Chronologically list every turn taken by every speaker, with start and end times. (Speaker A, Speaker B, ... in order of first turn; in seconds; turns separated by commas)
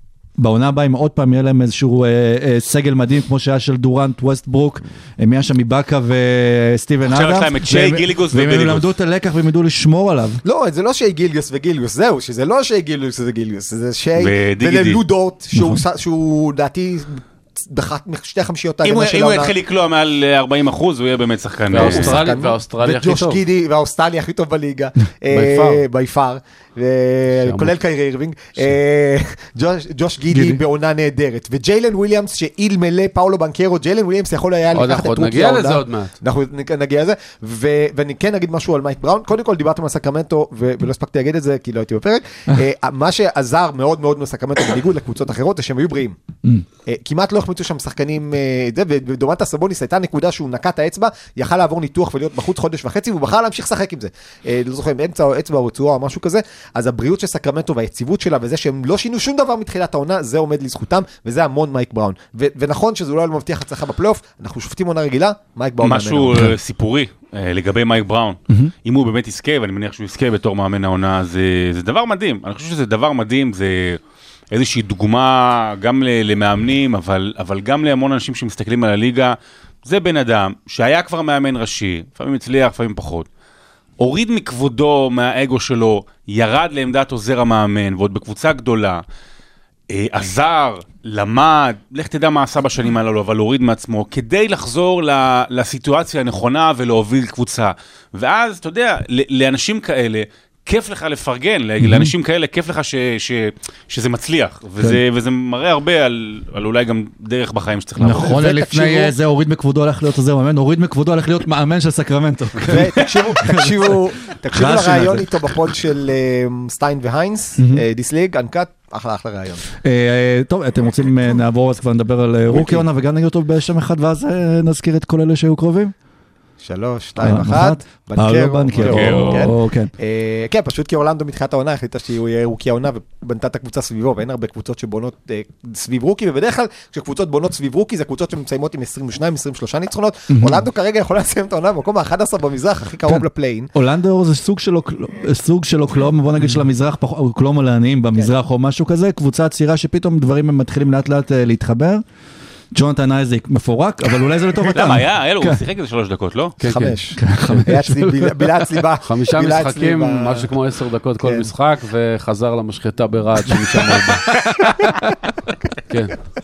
Speaker A: 0.4-10.4, Speaker B: 7.0-8.9, Speaker C: 10.4-19.5, Speaker B: 14.2-15.0, Speaker A: 15.5-15.8, Speaker B: 18.8-22.1, Speaker D: 21.7-23.4, Speaker C: 21.7-46.2, Speaker D: 25.3-25.8, Speaker D: 27.4-27.8, Speaker A: 30.3-30.6, Speaker D: 34.7-36.1, Speaker C: 46.9-66.5, Speaker B: 65.8-74.0, Speaker B: 74.5-83.3, Speaker B: 84.0-89.0, Speaker B: 89.9-108.4, Speaker A: 101.8-102.1, Speaker A: 108.0-114.0, Speaker C: 108.2-109.1, Speaker C: 112.7-119.7, Speaker A: 114.5-115.3, Speaker A: 117.6-117.8, Speaker A: 119.8-125.9, Speaker C: 122.5-122.8, Speaker C: 126.6-143.7, Speaker A: 127.2-129.9, Speaker B: 128.7-129.5, Speaker A: 140.3-140.7, Speaker A: 143.1-152.0, Speaker A: 152.7-155.6, Speaker B: 154.7-156.6, Speaker D: 156.6-157.7, Speaker C: 156.7-160.5, Speaker A: 157.2-158.7, Speaker D: 159.0-164.9, Speaker C: 161.2-161.5, Speaker D: 165.9-166.1